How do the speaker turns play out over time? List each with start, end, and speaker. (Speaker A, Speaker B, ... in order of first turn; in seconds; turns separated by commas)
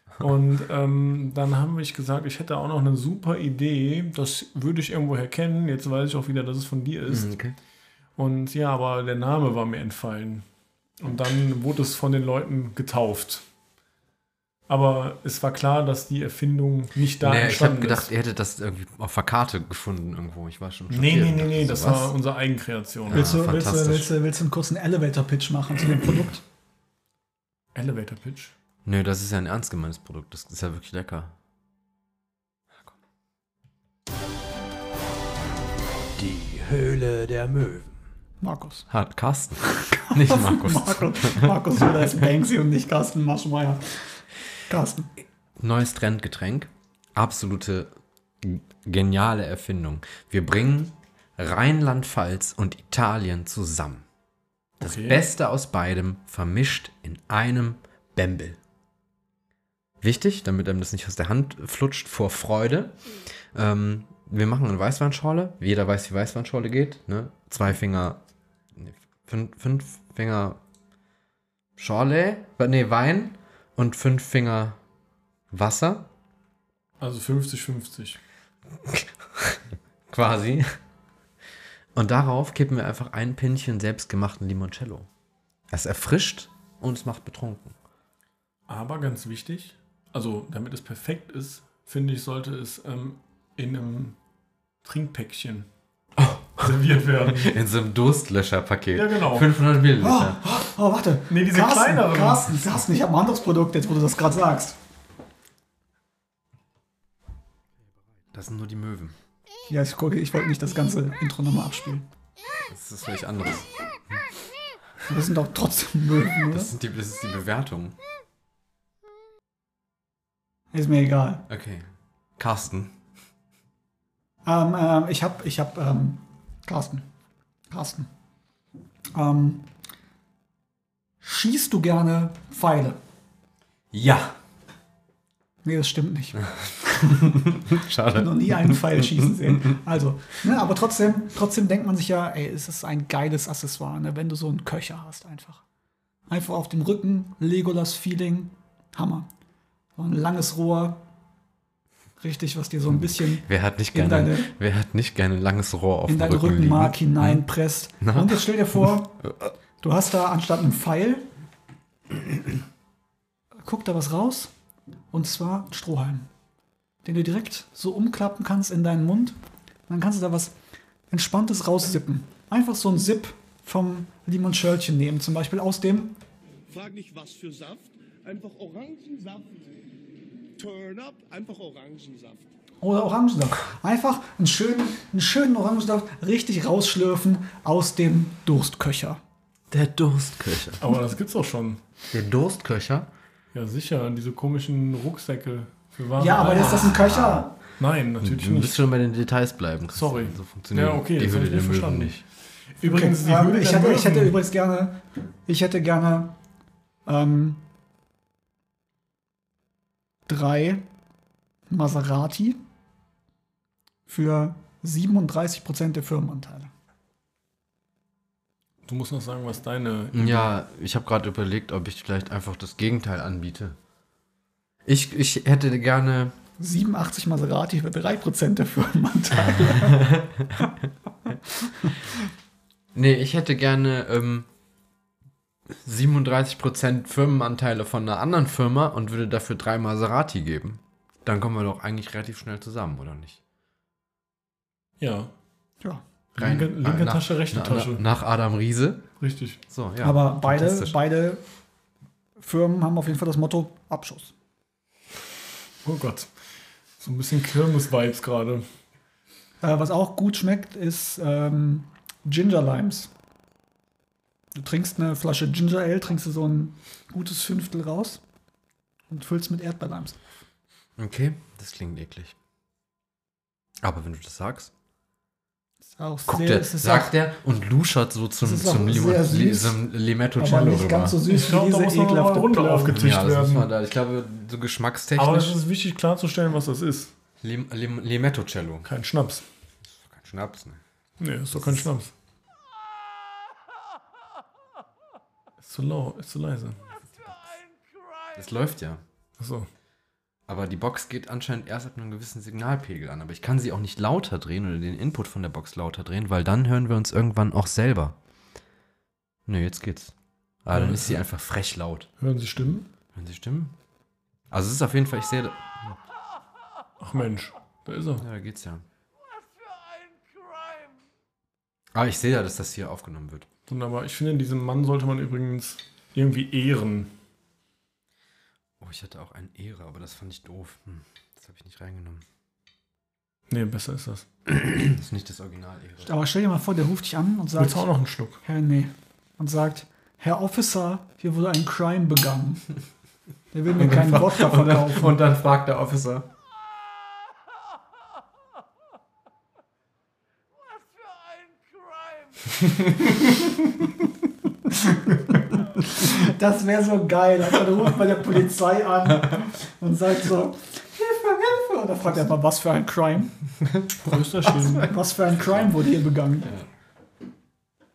Speaker A: 0.2-7.3, Speaker B: 7.1-7.6, Speaker A: 8.2-10.4, Speaker A: 11.0-13.4, Speaker A: 14.7-18.1, Speaker B: 17.2-22.1, Speaker A: 20.9-23.3, Speaker B: 23.1-24.1, Speaker C: 23.1-26.4, Speaker A: 27.7-28.5, Speaker B: 28.8-31.3, Speaker B: 36.1-38.0, Speaker C: 38.4-38.9, Speaker B: 38.9-41.7, Speaker C: 39.8-44.1, Speaker C: 44.7-45.1, Speaker B: 45.6-54.0, Speaker A: 54.8-55.2, Speaker B: 54.8-58.6, Speaker B: 60.0-62.9, Speaker B: 63.5-68.2, Speaker B: 68.7-70.6, Speaker B: 71.8-74.8, Speaker B: 75.5-76.1, Speaker A: 77.0-78.2, Speaker B: 78.8-80.7, Speaker B: 81.9-85.1, Speaker B: 85.7-87.8, Speaker A: 88.7-94.2, Speaker A: 94.8-95.7, Speaker B: 96.2-100.4, Speaker A: 96.6-97.5, Speaker A: 98.9-99.5, Speaker C: 100.0-104.8, Speaker A: 101.3-102.8, Speaker B: 108.3-109.2, Speaker C: 109.7-112.0, Speaker B: 112.7-114.2, Speaker C: 115.1-116.7, Speaker B: 116.5-118.0, Speaker C: 120.7-121.4, Speaker B: 121.5-122.9, Speaker C: 124.4-127.1, Speaker C: 127.7-128.1, Speaker C: 129.1-129.7, Speaker C: 131.2-133.0, Speaker B: 133.9-134.4, Speaker C: 135.6-137.5, Speaker B: 137.0-139.8, Speaker C: 138.1-145.6, Speaker C: 146.3-149.3, Speaker C: 150.0-151.0, Speaker C: 152.2-154.5, Speaker B: 152.9-157.4, Speaker C: 156.1-159.2, Speaker B: 158.0-159.5, Speaker C: 159.8-161.3, Speaker C: 163.6-164.5, Speaker C: 165.1-166.3, Speaker C: 167.0-169.4, Speaker C: 169.9-170.5, Speaker C: 171.1-176.2, Speaker D: 176.7-179.8, Speaker D: 180.6-182.5, Speaker C: 182.8-189.2, Speaker B: 189.7-190.9, Speaker A: 190.8-191.8, Speaker B: 192.1-193.1, Speaker A: 193.5-197.0, Speaker C: 196.2-197.5, Speaker B: 196.4-197.5, Speaker A: 197.8-198.8, Speaker B: 198.2-202.2, Speaker A: 199.9-202.3, Speaker A: 202.8-204.4, Speaker C: 202.8-206.3, Speaker C: 207.1-207.6, Speaker C: 210.3-210.8, Speaker C: 211.7-212.6, Speaker C: 214.1-216.7, Speaker A: 218.8-220.5, Speaker B: 220.1-223.8, Speaker B: 224.8-226.3, Speaker C: 226.6-230.1, Speaker B: 229.6-230.7, Speaker B: 232.9-234.5, Speaker B: 235.7-243.4, Speaker A: 245.0-245.3, Speaker A: 246.3-248.0, Speaker B: 246.4-249.1, Speaker A: 249.2-249.6, Speaker B: 249.7-251.0, Speaker C: 250.0-251.4, Speaker C: 252.4-254.3, Speaker A: 255.8-256.3, Speaker A: 257.0-258.6, Speaker C: 259.6-263.1, Speaker C: 264.5-268.2, Speaker C: 269.1-270.2, Speaker B: 271.0-272.3, Speaker B: 273.8-274.7, Speaker C: 275.9-277.2, Speaker B: 276.3-281.2, Speaker C: 278.4-279.8, Speaker C: 280.4-282.9, Speaker A: 281.3-283.7, Speaker B: 282.9-285.6, Speaker A: 285.1-287.1, Speaker B: 287.4-288.9, Speaker A: 288.8-289.4, Speaker B: 289.8-290.8, Speaker A: 291.2-292.1, Speaker B: 291.5-291.9, Speaker A: 295.6-296.8, Speaker B: 298.3-299.0, Speaker A: 299.4-299.7, Speaker B: 300.5-308.1, Speaker B: 309.4-310.1, Speaker B: 310.6-312.1, Speaker A: 310.7-311.2, Speaker A: 312.2-312.9, Speaker B: 313.1-313.7, Speaker B: 314.5-316.0, Speaker A: 317.0-318.2, Speaker B: 318.2-318.8, Speaker B: 321.9-323.5, Speaker A: 323.7-327.1, Speaker B: 328.8-332.2, Speaker A: 333.5-334.2, Speaker B: 334.5-336.1, Speaker C: 336.0-337.9, Speaker A: 337.6-338.4, Speaker C: 338.4-342.7, Speaker C: 343.5-345.1, Speaker B: 343.8-346.2, Speaker B: 352.6-353.6, Speaker C: 355.8-363.3, Speaker B: 363.8-364.8, Speaker A: 364.0-364.9, Speaker C: 364.8-366.5, Speaker B: 365.4-365.7